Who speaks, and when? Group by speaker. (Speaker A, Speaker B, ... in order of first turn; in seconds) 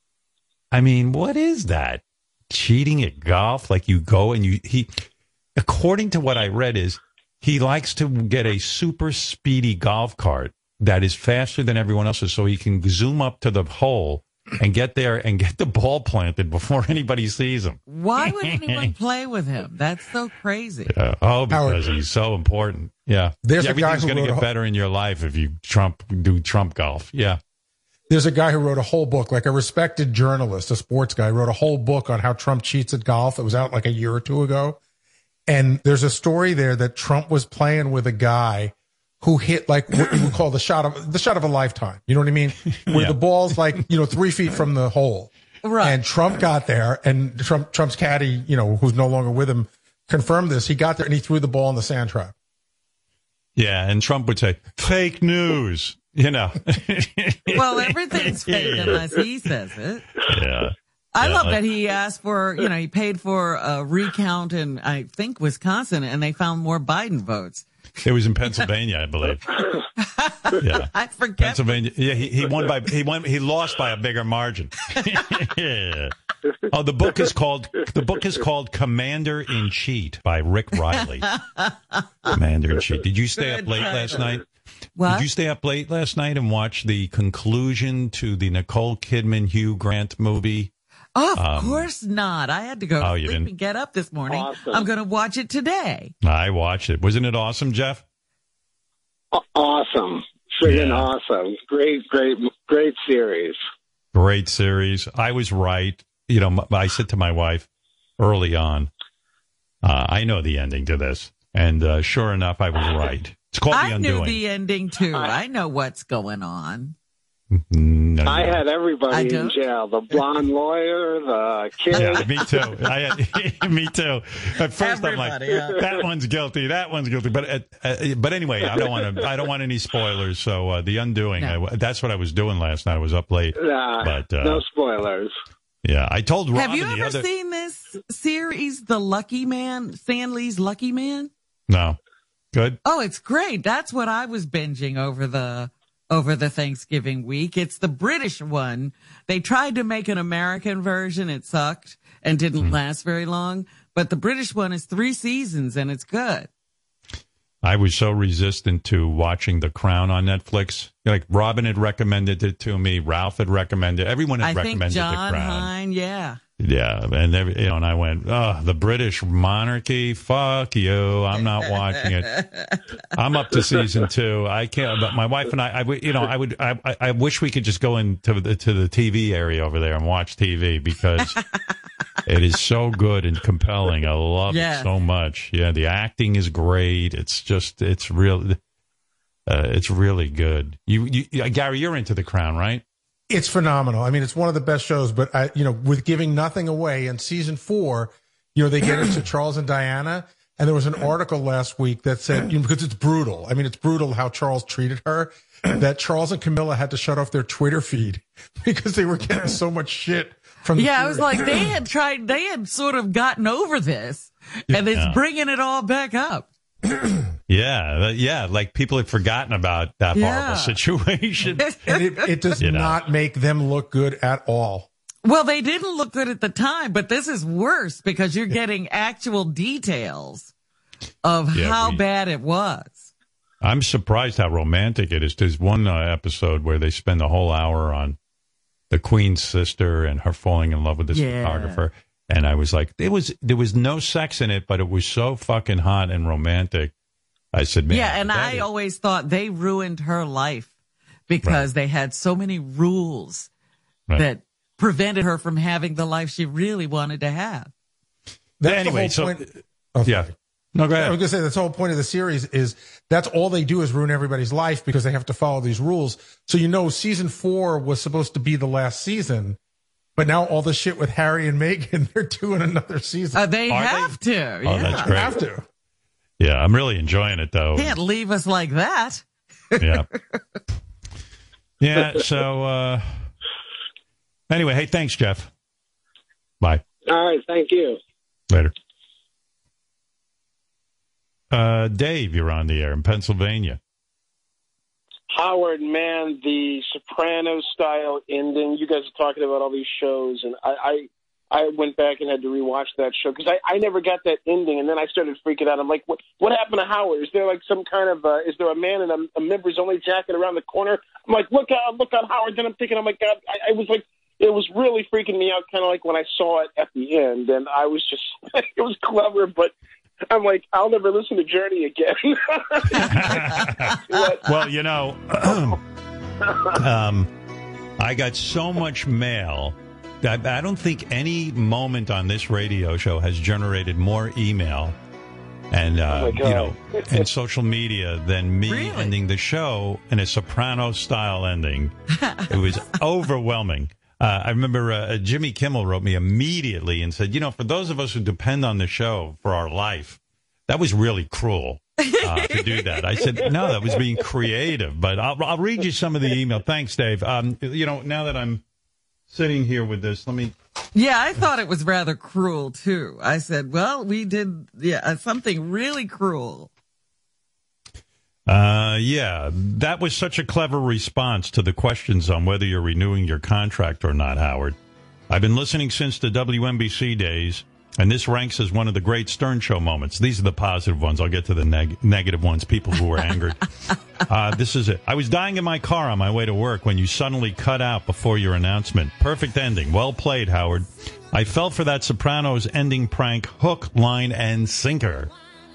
Speaker A: 0.7-17.8, 18.4-18.9, 20.9-27.4, 42.9-43.2, 53.6-59.2, 60.3-61.6, 68.0-69.6, 70.6-81.3, 82.3-84.5, 85.1-90.7, 91.3-91.9, 93.0-93.5, 96.2-98.0, 100.6-101.1, 104.1-108.9, 109.8-114.4, 117.5-118.6, 121.9-134.7, 135.8-137.3, 141.7-142.0, 142.5-142.8, 157.6-165.7, 166.6-172.4, 173.1-181.4, 182.2-188.6, 189.5-192.8, 214.8-215.2, 217.5-221.7, 222.6-223.0, 231.5-232.0, 233.6-238.2, 238.9-246.9, 247.5-248.7, 258.6-259.5, 260.1-261.2, 273.7-275.4, 276.4-278.0, 279.8-280.1, 281.8-283.3, 284.5-285.5, 291.5-293.8, 323.0-325.8, 326.7-327.3, 328.0-335.0, 335.7-341.9, 342.5-358.6, 359.3-360.5, 368.5-374.8, 375.3-395.3
Speaker B: 17.9-20.9, 45.6-46.0, 57.5-60.2, 61.1-67.7, 70.0-71.8, 81.1-82.0, 83.4-84.4, 85.0-85.3, 91.2-96.1, 113.7-117.0, 119.1-119.6, 124.8-125.9, 136.5-141.3, 142.8-156.5, 164.4-166.4, 172.3-172.8, 184.5-184.9, 210.8-216.5, 220.2-220.8, 221.6-222.6, 225.2-230.5, 231.2-233.1, 241.1-241.8, 247.9-250.7, 251.3-253.5, 254.2-257.7, 273.3-275.1, 277.8-279.9, 338.7-339.1, 342.2-342.5, 352.0-353.5, 360.9-366.7
Speaker C: 21.5-21.8, 23.4-24.5, 28.1-34.8, 35.5-52.4, 193.3-211.7, 221.4-224.9, 258.6-260.3, 260.9-269.6, 270.2-273.4, 274.8-275.6
Speaker D: 94.3-94.9, 99.3-103.6, 118.3-122.5, 133.6-135.3, 287.1-288.0
Speaker E: 295.3-319.7, 320.3-324.6, 336.1-337.2